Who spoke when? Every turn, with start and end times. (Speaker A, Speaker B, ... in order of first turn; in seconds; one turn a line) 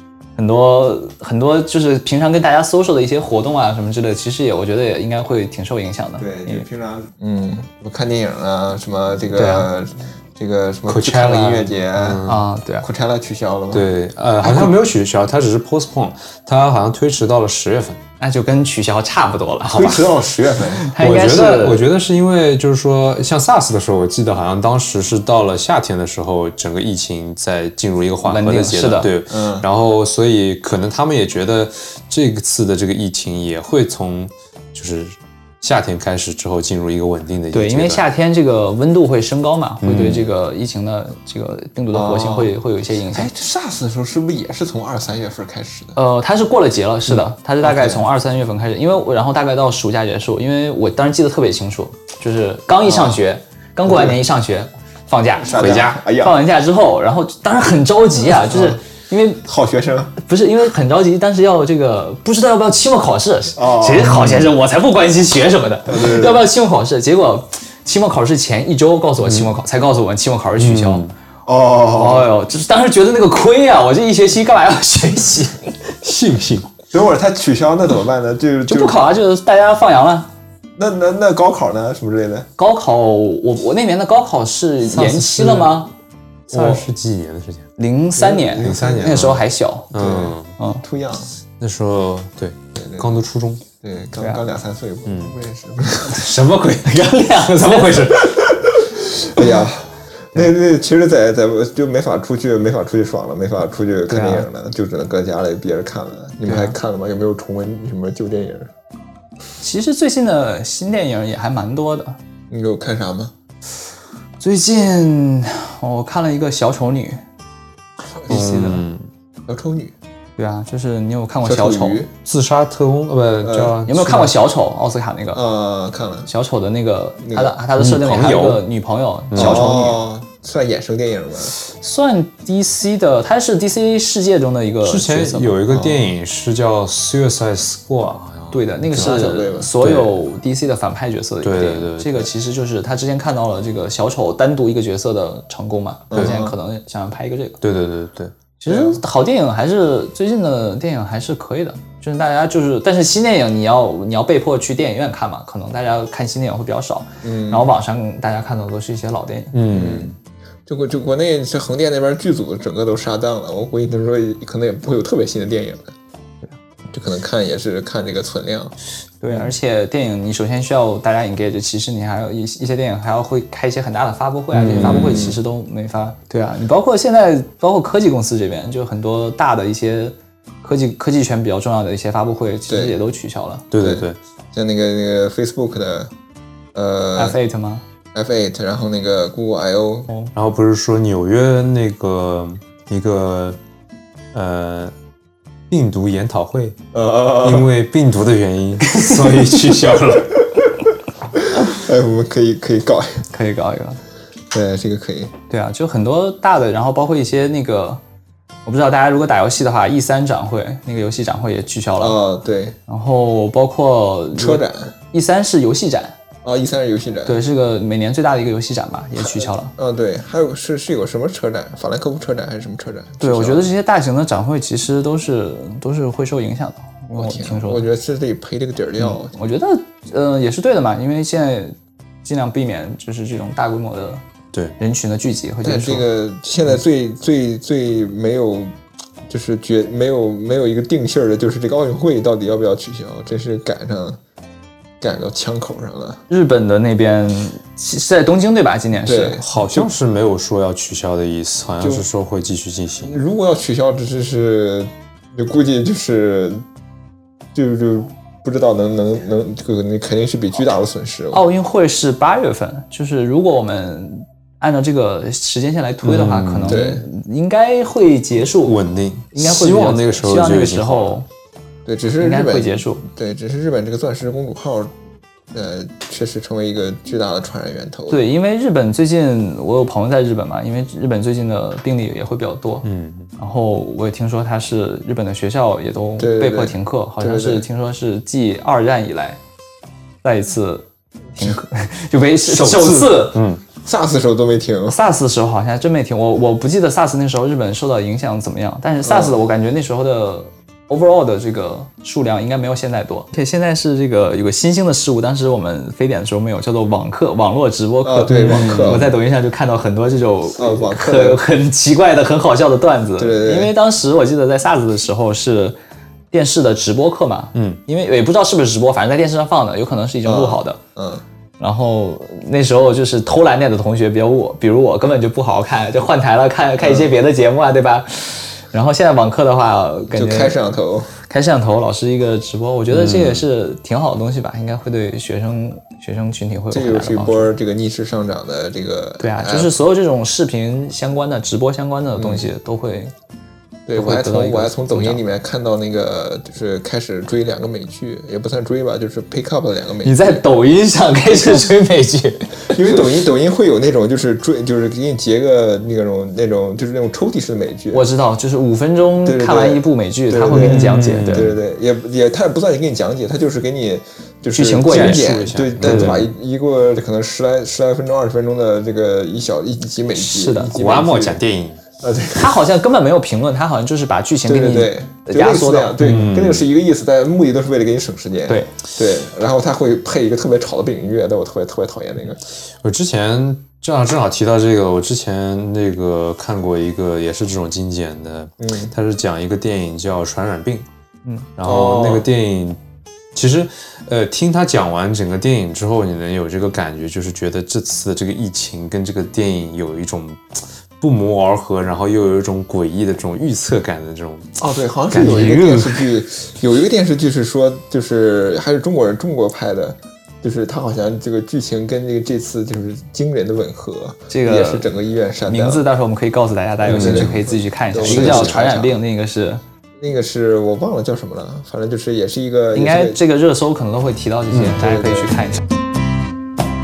Speaker A: 0.4-6.6
Speaker B: 6.2-12.2
Speaker A: 9.3-9.7
Speaker C: 10.9-12.4
Speaker A: 12.2-12.8
Speaker B: 12.8-13.9
Speaker C: 13.7-18.0
Speaker B: 14.4-14.7
Speaker A: 18.2-20.1
Speaker B: 19.6-20.9
Speaker A: 20.8-21.8
Speaker C: 21.0-38.0
Speaker A: 28.2-29.1
Speaker B: 29.3-29.7
Speaker A: 37.5-43.3
Speaker C: 39.8-40.3
Speaker B: 41.9-42.5
Speaker B: 43.1-46.0
Speaker A: 46.0-59.4
Speaker B: 47.6-48.0
Speaker B: 52.8-53.2
Speaker B: 53.8-54.2
Speaker B: 55.4-56.4
Speaker C: 55.6-56.0
Speaker B: 58.5-58.8
Speaker B: 59.4-60.1
Speaker A: 60.2-71.0
Speaker B: 63.5-64.3
Speaker C: 64.1-64.4
Speaker B: 65.9-66.4
Speaker C: 69.2-69.5
Speaker C: 70.6-71.1
Speaker B: 71.5-72.3
Speaker A: 71.9-75.7
Speaker C: 76.0-76.7
Speaker B: 76.9-79.1
Speaker A: 78.7-80.3
Speaker B: 80.8-82.5
Speaker A: 82.6-85.9
Speaker C: 84.8-85.8
Speaker C: 86.5-87.7
Speaker A: 86.5-86.8
Speaker A: 87.8-89.9
Speaker B: 88.2-89.4
Speaker C: 88.6-89.3
Speaker C: 89.9-90.5
Speaker B: 89.9-91.3
Speaker C: 91.6-93.6
Speaker B: 92.7-93.2
Speaker B: 93.8-96.2
Speaker A: 94.2-94.4
Speaker C: 95.0-95.4
Speaker C: 96.1-98.5
Speaker A: 96.9-98.2
Speaker B: 98.6-108.7
Speaker A: 104.1-104.5
Speaker A: 106.5-106.7
Speaker A: 109.6-112.2
Speaker B: 112.5-113.3
Speaker A: 114.4-117.2
Speaker A: 118.3-118.8
Speaker C: 118.3-119.1
Speaker B: 119.5-119.9
Speaker A: 120.4-122.0
Speaker B: 121.4-122.1
Speaker C: 122.2-124.3
Speaker B: 123.4-123.8
Speaker A: 123.8-125.4
Speaker B: 125.3-126.3
Speaker A: 126.3-130.0
Speaker B: 127.2-127.6
Speaker C: 127.8-128.6
Speaker C: 129.3-129.7
Speaker B: 129.3-131.5
Speaker A: 131.4-135.6
Speaker C: 134.8-140.2
Speaker B: 135.7-136.1
Speaker A: 138.5-147.6
Speaker B: 139.0-139.7
Speaker C: 141.4-142.3
Speaker B: 146.1-146.5
Speaker C: 147.6-148.3
Speaker A: 148.6-159.6
Speaker B: 148.7-149.0
Speaker B: 157.2-157.7
Speaker C: 159.5-160.1
Speaker B: 159.7-160.1
Speaker B: 160.7-165.9
Speaker B: 166.9-168.7
Speaker A: 169.2-183.6
Speaker C: 174.5-175.2
Speaker B: 174.7-175.4
Speaker B: 182.7-183.0
Speaker C: 183.7-184.2
Speaker B: 183.8-186.1
Speaker B: 186.7-187.4
Speaker A: 187.1-187.8
Speaker B: 188.1-190.1
Speaker C: 190.3-193.6
Speaker C: 194.3-194.9
Speaker C: 195.7-196.8
Speaker B: 196.9-197.7
Speaker C: 197.4-200.5
Speaker B: 201.5-203.2
Speaker A: 203.3-204.0
Speaker B: 204.5-205.3
Speaker A: 205.5-208.0
Speaker A: 208.7-212.2
Speaker B: 212.0-212.8
Speaker A: 212.9-216.1
Speaker B: 214.3-214.9
Speaker B: 216.4-217.4
Speaker A: 217.2-219.7
Speaker B: 219.4-223.7
Speaker A: 223.2-227.8
Speaker B: 227.2-229.3
Speaker A: 229.0-234.2
Speaker A: 234.8-236.1
Speaker B: 235.6-238.8
Speaker B: 239.3-244.2
Speaker B: 245.0-246.2
Speaker A: 246.3-249.4
Speaker B: 249.0-249.9
Speaker C: 249.4-253.2
Speaker B: 251.8-252.1
Speaker B: 253.0-256.6
Speaker B: 257.5-261.4
Speaker A: 261.3-268.8
Speaker C: 266.0-266.8
Speaker B: 266.7-267.0
Speaker C: 268.6-271.2
Speaker A: 269.3-271.2
Speaker B: 271.9-274.9
Speaker A: 272.2-273.0
Speaker B: 275.5-278.2
Speaker A: 278.1-282.9
Speaker C: 282.8-283.3
Speaker A: 283.4-289.4
Speaker B: 286.2-287.6
Speaker A: 290.2-290.9
Speaker A: 291.4-293.4
Speaker C: 292.4-293.6
Speaker B: 293.8-295.0
Speaker A: 294.9-315.8
Speaker B: 299.0-299.3
Speaker B: 308.0-309.1
Speaker C: 308.3-309.1
Speaker B: 310.6-311.4
Speaker B: 313.2-313.7
Speaker A: 316.3-320.8
Speaker C: 317.5-317.8
Speaker B: 320.2-321.2
Speaker A: 321.6-330.6
Speaker B: 326.8-327.1
Speaker B: 330.1-331.1
Speaker A: 331.2-337.5
Speaker C: 332.9-333.4
Speaker B: 336.7-339.7
Speaker A: 339.2-343.1
Speaker B: 342.2-342.5
Speaker B: 343.9-350.4
Speaker A: 343.9-345.2
Speaker A: 350.0-353.0
Speaker B: 352.7-358.1
Speaker A: 357.9-361.6
Speaker B: 359.2-371.4
Speaker C: 360.6-361.5
Speaker A: 364.5-366.2
Speaker C: 364.9-366.2
Speaker A: 370.1-370.7
Speaker C: 370.7-371.8
Speaker B: 372.0-372.5
Speaker A: 372.3-375.9
Speaker B: 374.4-382.4
Speaker C: 376.0-376.7
Speaker C: 382.8-390.9
Speaker B: 388.6-388.9
Speaker C: 391.6-392.8
Speaker B: 391.6-392.3
Speaker C: 393.3-406.1
Speaker B: 404.6-415.8
Speaker A: 414.3-414.9
Speaker A: 415.5-419.6
Speaker C: 416.8-417.4
Speaker B: 416.9-418.9
Speaker C: 418.1-418.6
Speaker B: 420.0-423.2
Speaker A: 422.7-425.6
Speaker B: 424.7-425.4